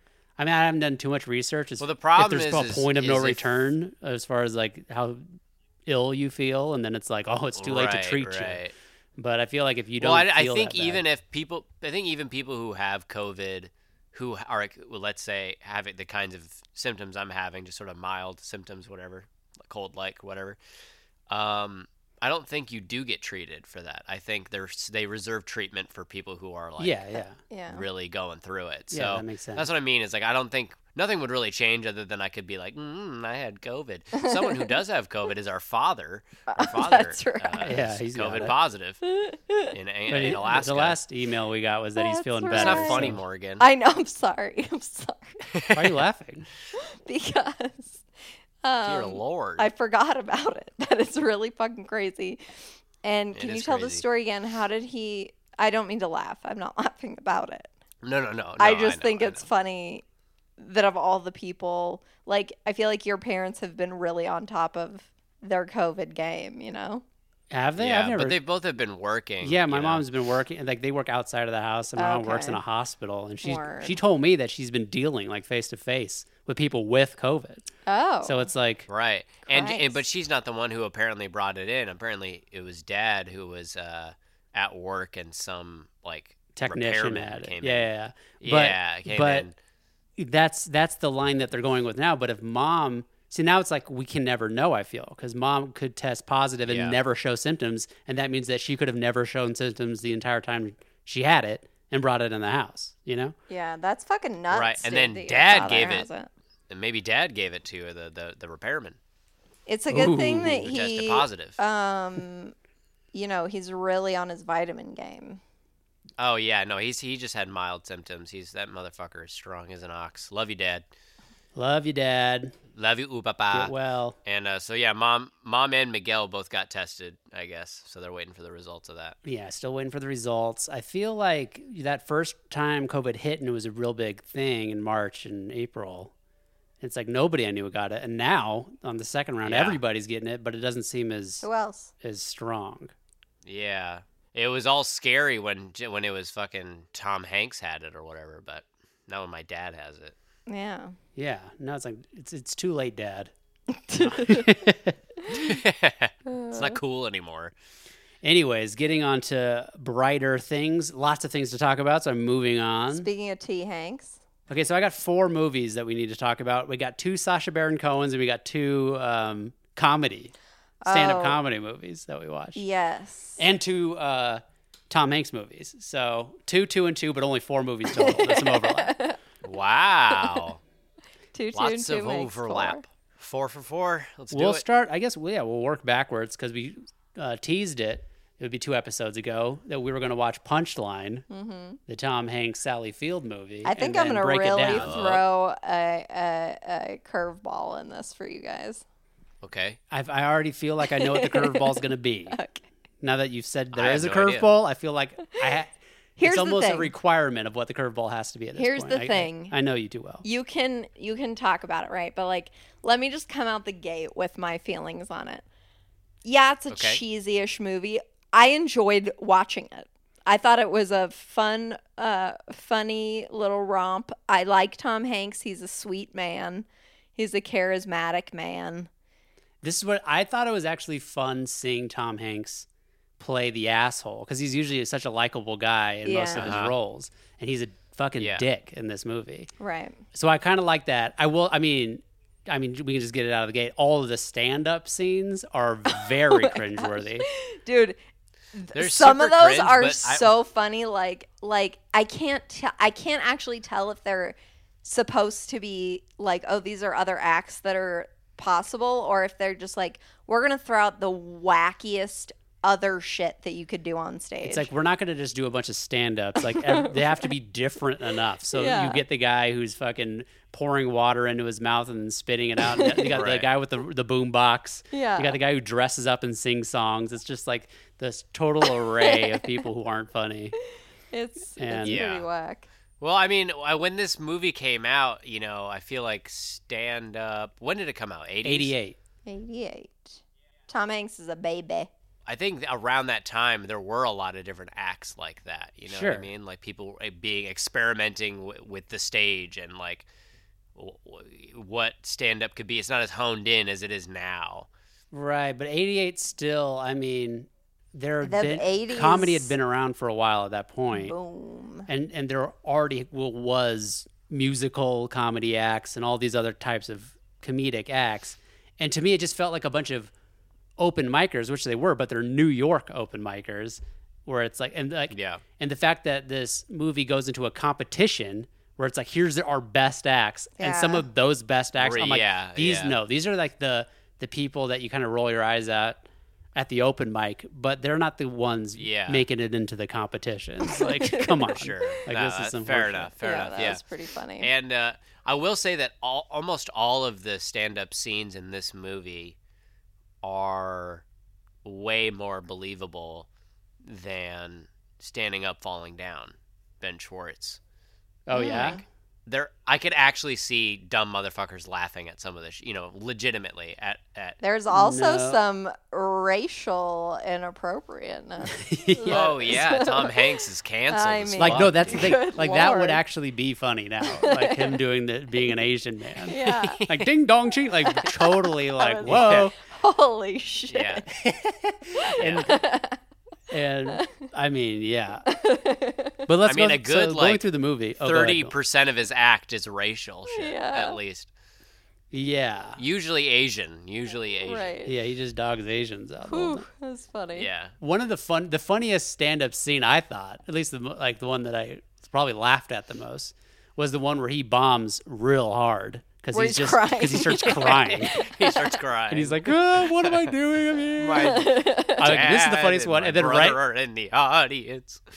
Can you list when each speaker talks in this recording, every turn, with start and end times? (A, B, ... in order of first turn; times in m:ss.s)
0:00.4-0:08.6 A
0:01.8-0:03.4 B
0:07.6-0:08.7 B
0:09.2-0:11.0 A
0:10.0-0:20.6 B
0:21.3-0:27.0 B
0:26.8-0:27.4 A
0:27.5-0:27.8 C
0:27.7-0:39.0 B
0:28.9-0:29.7 A
0:34.1-0:34.7 C
0:36.5-0:37.8 C
0:37.6-0:38.5 A
0:39.1-0:39.7 C
0:39.7-0:41.0 B
0:40.1-0:43.2 A
0:42.0-0:45.4 C
0:42.5-0:43.6 B
0:45.5-0:46.0 B
0:45.7-0:46.5 A
0:46.8-0:48.0 C
0:48.6-0:57.7 C
0:48.8-0:49.7 B
0:53.3-0:54.0 B
0:58.0-0:59.5 B
0:58.6-1:00.0 C
1:00.6-1:07.0 C
1:07.5-1:08.4 A
1:07.8-1:10.0 B
1:09.4-1:17.7 A
1:12.0-1:12.6 C
1:13.4-1:14.0 C
1:17.8-1:18.5 C
1:18.2-1:18.9 A
1:18.9-1:29.5 B
1:19.5-1:20.0 C
1:26.5-1:29.5 A
1:30.2-1:43.3 A
1:36.7-1:37.0 B
1:43.5-1:46.3 C
1:44.5-1:46.1 B
1:46.7-1:49.0 B
1:49.7-1:52.5 C
1:49.9-1:50.7 A
1:50.6-1:51.6 B
1:53.1-1:55.4 C
1:56.2-2:00.8 B
2:01.5-2:02.6 A
2:02.7-2:09.2 B
2:03.5-2:04.2 A
2:09.2-2:16.1 A
2:16.8-2:21.4 A
2:19.4-2:19.8 B
2:21.4-2:21.9 C
2:22.0-2:22.9 A
2:23.4-2:30.1 B
2:30.5-2:31.0 C
2:31.2-2:33.3 A
2:33.8-2:34.5 C
2:33.9-2:35.0 A
2:35.3-2:37.5 B
2:36.3-2:36.8 C
2:38.2-2:43.1 A
2:42.9-2:44.2 C
2:44.5-2:50.3 A
2:50.8-2:51.4 C
2:50.9-2:52.6 A
2:52.5-2:53.4 C
2:53.4-2:58.9 A
2:57.9-2:59.2 C
2:59.4-3:00.6 B
3:01.3-3:02.8 C
3:01.5-3:04.6 B
3:04.3-3:11.2 A
3:11.3-3:11.8 C
3:11.9-3:15.0 A
3:13.6-3:18.8 C
3:14.6-3:15.2 B
3:19.4-3:19.8 B
3:19.9-3:22.4 A
3:20.8-3:22.6 C
3:23.0-3:30.2 A
3:23.7-3:24.5 B
3:26.2-3:26.9 C
3:28.6-3:29.5 C
3:30.2-3:35.4 C
3:36.2-3:48.9 C
3:36.7-3:37.0 B
3:49.6-3:52.7 A
3:53.2-3:59.5 A
3:56.0-3:56.6 C
3:56.3-3:56.7 B
3:58.2-3:58.4 B
3:59.6-4:00.0 C
4:00.1-4:07.3 A
4:05.9-4:08.0 C
4:08.5-4:24.7 C
4:08.7-4:10.3 B
4:24.4-4:40.6 A
4:26.4-4:27.2 C
4:28.5-4:29.0 C
4:32.6-4:33.1 C
4:33.1-4:33.5 B
4:34.9-4:35.4 C
4:38.8-4:39.6 C
4:41.1-4:42.7 C
4:41.6-4:42.0 A
4:41.8-4:42.3 B
4:43.0-4:48.7 B
4:48.4-4:49.0 A
4:49.2-4:51.9 C
4:52.2-5:00.1 B
4:55.8-4:56.3 A
5:00.8-5:04.7 B
5:05.1-5:11.1 A
5:08.2-5:09.5 C
5:10.9-5:11.9 C
5:11.9-5:20.1 A
5:20.8-5:36.0 A
5:25.1-5:25.4 B
5:30.6-5:31.1 C
5:31.8-5:33.0 B
5:36.5-5:43.1 A
5:38.8-5:39.2 B
5:40.6-5:41.5 C
5:41.5-5:43.8 B
5:43.2-5:44.5 C
5:44.4-5:49.4 B
5:50.2-5:51.0 B
5:51.6-5:53.3 B
5:53.8-5:57.6 B
5:58.3-5:58.8 A
5:58.3-5:58.8 C
5:58.4-6:04.4 B
6:04.4-6:13.0 C
6:04.7-6:05.4 A
6:08.5-6:09.6 A
6:09.1-6:12.1 B
6:11.4-6:19.5 A
6:14.1-6:14.8 C
6:16.2-6:16.8 C
6:16.5-6:17.0 B
6:17.8-6:21.1 C
6:19.0-6:19.5 B
6:20.7-6:21.0 B
6:21.2-6:22.5 A
6:21.9-6:23.0 C
6:22.2-6:22.5 B
6:23.5-6:25.2 A
6:25.3-6:26.2 C
6:26.3-6:28.6 A
6:26.4-6:27.5 B
6:28.0-6:31.3 B
6:30.3-6:31.0 C
6:32.1-6:32.8 A
6:32.8-6:34.8 B
6:34.4-6:34.9 C
6:34.8-6:36.6 A
6:36.2-6:37.5 C
6:37.3-6:37.7 B
6:37.8-6:48.3 A
6:46.3-6:48.6 C
6:47.6-6:50.3 B
6:49.1-6:53.6 A
6:51.0-6:55.0 B
6:51.2-6:52.1 C